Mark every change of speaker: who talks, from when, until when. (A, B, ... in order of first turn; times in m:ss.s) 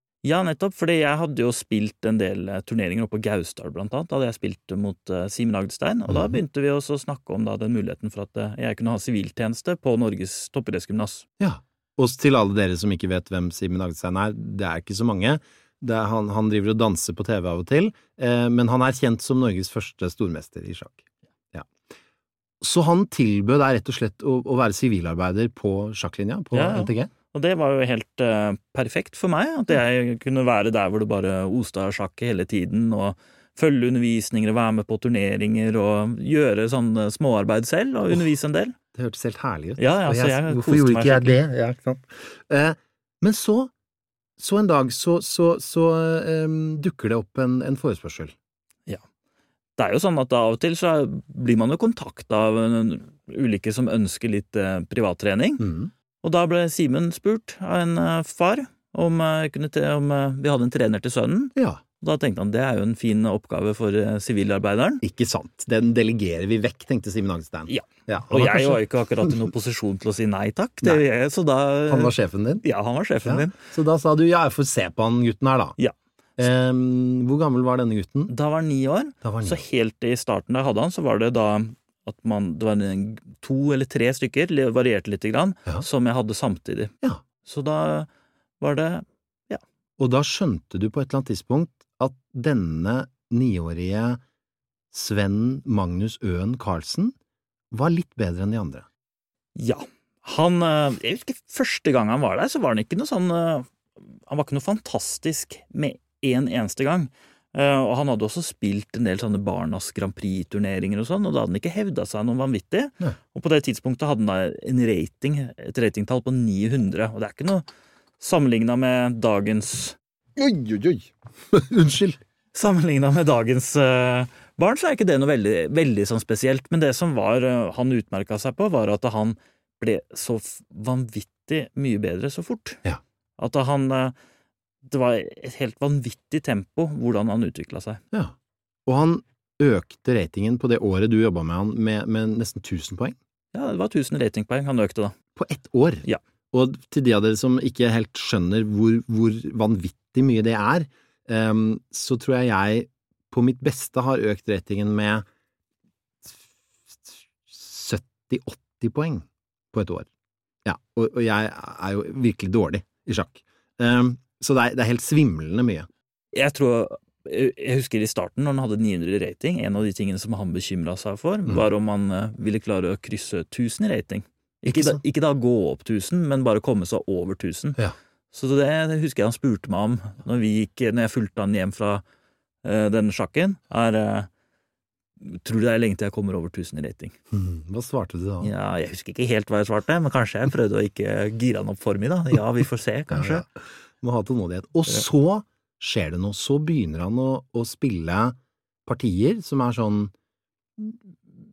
0:00.2-0:11.2 A
0:06.1-0:06.4 B
0:11.4-0:21.0 B
0:22.6-0:27.1 B
0:26.5-0:38.8 A
0:38.9-0:43.7 B
0:39.8-0:41.4 A
0:44.4-0:48.3 B
0:49.8-0:55.6 A
0:55.6-0:55.9 B
0:56.2-1:05.0 A
1:01.6-1:01.8 B
1:05.0-1:09.3 B
1:07.7-1:13.5 A
1:11.9-1:12.6 B
1:13.2-1:15.8 B
1:16.4-1:18.3 B
1:18.3-1:26.9 A
1:19.2-1:19.6 B
1:27.4-1:28.1 A
1:28.6-1:29.6 A
1:30.0-1:34.2 B
1:34.9-1:37.1 B
1:37.7-1:38.8 B
1:39.6-1:43.7 A
1:44.3-1:57.7 A
1:58.2-2:00.0 A
2:00.4-2:02.2 B
2:02.5-2:12.8 A
2:13.4-2:14.1 A
2:14.8-2:18.0 A
2:18.8-2:23.2 B
2:23.5-2:25.1 A
2:25.4-2:35.2 B
2:37.5-2:40.1 B
2:40.6-2:45.9 B
2:46.3-2:57.8 A
2:54.7-2:55.0 B
2:58.3-3:02.0 A
3:02.6-3:04.3 A
3:05.2-3:07.1 A
3:07.3-3:08.5 B
3:08.4-3:13.4 A
3:13.1-3:13.4 B
3:14.0-3:18.4 B
3:18.9-3:20.1 B